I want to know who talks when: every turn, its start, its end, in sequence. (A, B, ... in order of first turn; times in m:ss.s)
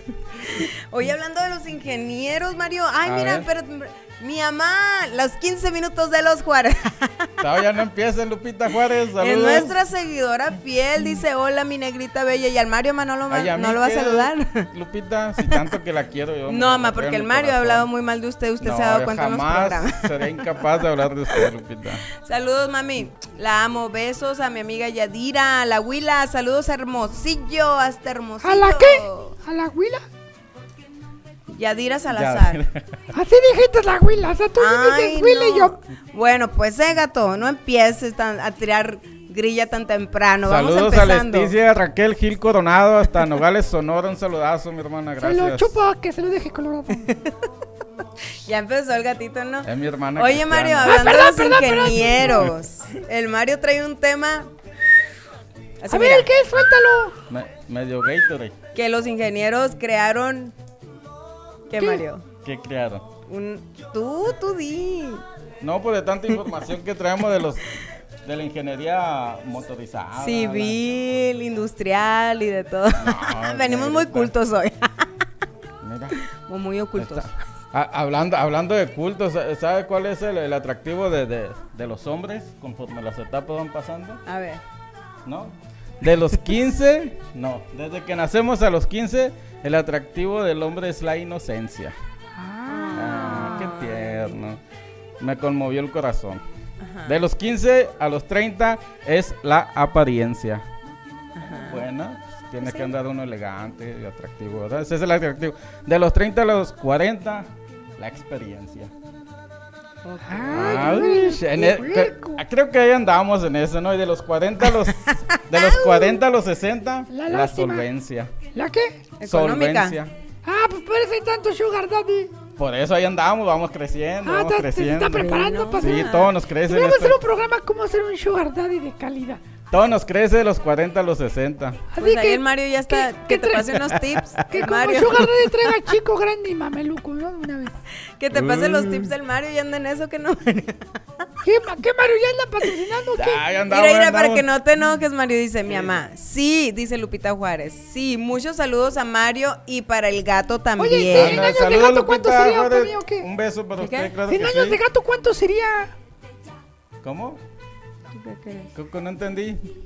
0:00.4-0:07.3 A
0:03.0-0:03.5 B
0:07.4-0:09.8 B
0:09.2-0:14.7 A
0:13.3-0:17.9 B
0:16.5-0:20.3 A
0:18.6-0:22.0 B
0:22.2-0:29.3 A
0:28.4-0:30.0 C
0:31.5-0:32.6 A
0:32.1-0:33.0 B
0:33.1-0:35.7 C
0:34.6-0:41.5 A
0:40.4-0:45.8 B
0:45.2-0:47.1 C
0:48.4-0:54.5 A
0:49.6-0:51.0 B
0:50.8-0:52.4 C
0:55.8-0:56.3 A
0:55.9-0:57.1 C
0:57.3-0:58.6 B
0:58.7-1:00.5 A
1:01.7-1:02.2 A
1:02.4-1:03.1 B
1:03.3-1:05.2 A
1:05.6-1:10.8 B
1:10.2-1:15.1 A
1:13.0-1:14.3 B
1:15.8-1:16.2 B
1:16.4-1:17.3 A
1:17.0-1:24.2 B
1:24.2-1:24.6 A
1:25.2-1:31.9 B
1:32.4-1:33.4 C
1:32.7-1:34.4 A
1:32.9-1:34.6 B
1:35.2-1:36.4 B
1:36.8-1:37.2 A
1:37.0-1:40.6 B
1:41.4-1:41.8 A
1:41.4-1:48.9 B
1:50.0-1:51.0 A
1:50.3-1:52.4 C
1:50.5-1:58.3 B
1:55.3-1:56.1 A
1:57.1-1:57.8 C
1:58.5-1:59.0 C
1:59.2-2:00.0 A
1:59.2-2:00.1 B
2:00.4-2:02.3 C
2:02.6-2:07.2 B
2:04.2-2:06.1 C
2:05.2-2:06.3 A
2:06.6-2:09.4 C
2:09.7-2:11.9 B
2:11.9-2:13.9 C
2:12.0-2:15.7 A
2:14.5-2:17.7 C
2:18.2-2:20.9 A
2:18.3-2:19.1 B
2:21.4-2:23.4 C
2:23.1-2:24.4 B
2:23.7-2:31.4 A
2:25.7-2:25.9 B
2:30.8-2:33.2 C
2:31.1-2:34.8 B
2:33.8-2:34.1 A
2:34.3-2:35.9 C
2:37.0-2:37.4 B
2:38.1-2:38.7 A
2:38.7-2:39.6 B